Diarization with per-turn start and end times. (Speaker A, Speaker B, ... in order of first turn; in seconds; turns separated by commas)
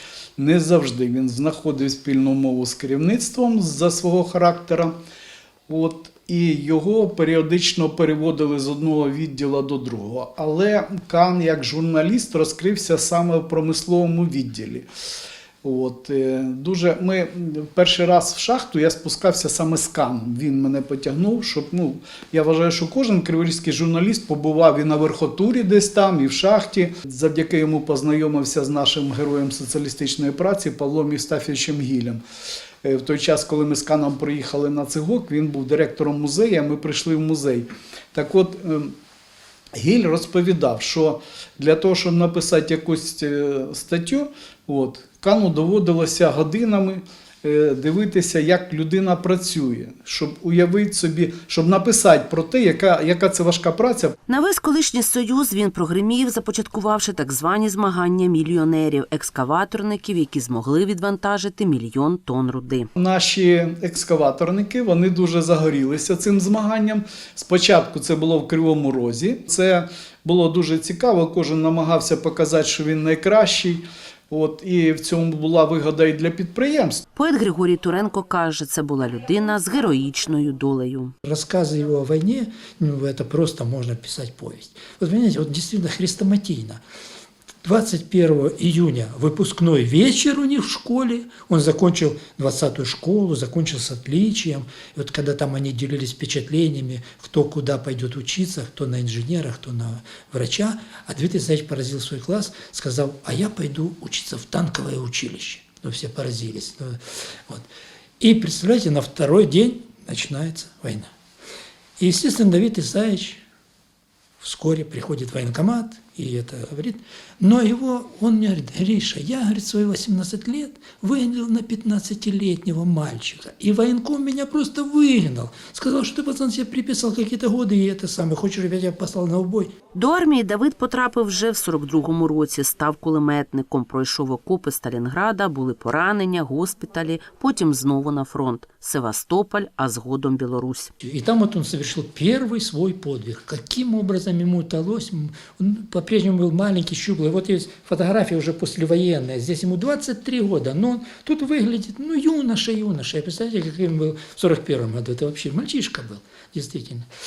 Speaker A: 0.4-4.9, Speaker A: 5.7-14.9, Speaker A: 15.6-32.2, Speaker A: 32.8-38.9, Speaker A: 39.7-54.1, Speaker B: 54.3-62.9, Speaker A: 63.0-77.0, Speaker B: 77.2-81.1, Speaker C: 81.2-86.8, Speaker C: 87.6-107.0, Speaker C: 108.2-111.1, Speaker C: 112.0-113.4, Speaker C: 114.4-129.7, Speaker B: 129.9-140.9, Speaker C: 141.0-157.1